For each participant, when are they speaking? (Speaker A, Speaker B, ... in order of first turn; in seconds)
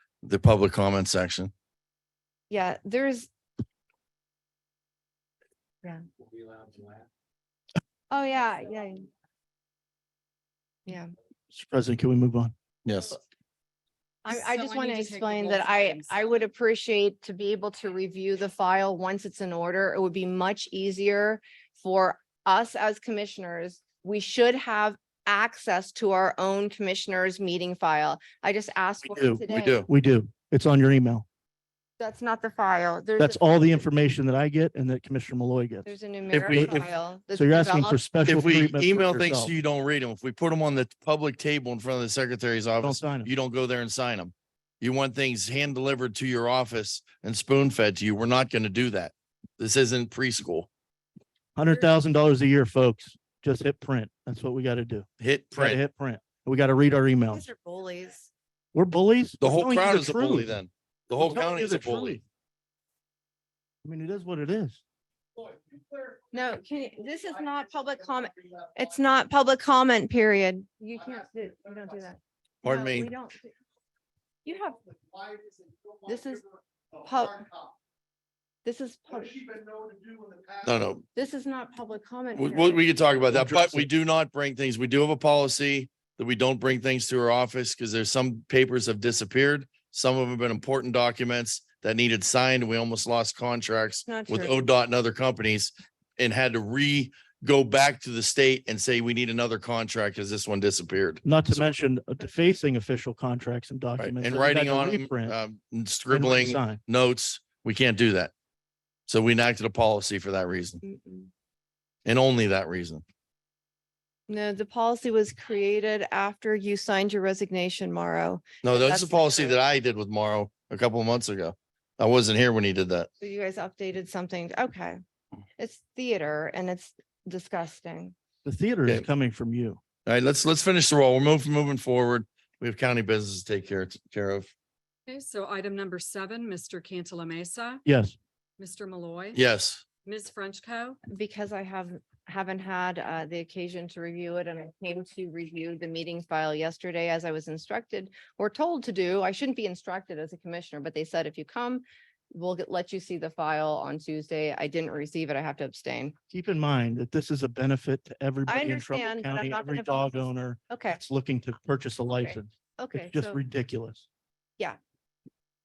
Speaker A: 0.2-1.5, 12.8-13.2, 29.5-29.9, 36.3-36.8, 38.3-50.7, 55.2-55.8, 59.4-62.2, 72.6-73.1, 80.6-81.0, 82.3-101.6, 104.0-108.3, 109.1-110.8, 112.0-113.0, 118.6-123.1, 130.1-134.5, 139.3-139.8
Speaker B: 2.5-3.3, 8.1-9.1, 10.9-11.1, 14.2-29.8, 32.0-33.9, 35.9-38.0, 57.3-58.3, 66.3-73.5, 74.5-74.8, 76.0-76.5, 77.0-77.5, 78.7-79.6, 81.2-82.8, 94.1-94.7, 110.8-111.3, 114.3-119.6, 123.2-125.0, 125.6-128.2, 141.1-156.2, 158.5-161.0, 162.1-163.4
Speaker C: 11.5-12.5, 29.0-31.2, 33.2-35.9, 36.5-36.8, 37.3-39.5, 42.8-43.3, 51.6-57.5, 58.7-60.6, 61.2-62.2, 63.8-64.8, 83.3-83.9, 101.2-105.4, 106.1-106.8, 128.4-129.8, 137.8-138.2, 156.3-164.1
Speaker D: 14.3-16.2, 135.1-137.8, 138.6-139.4, 140.0-141.0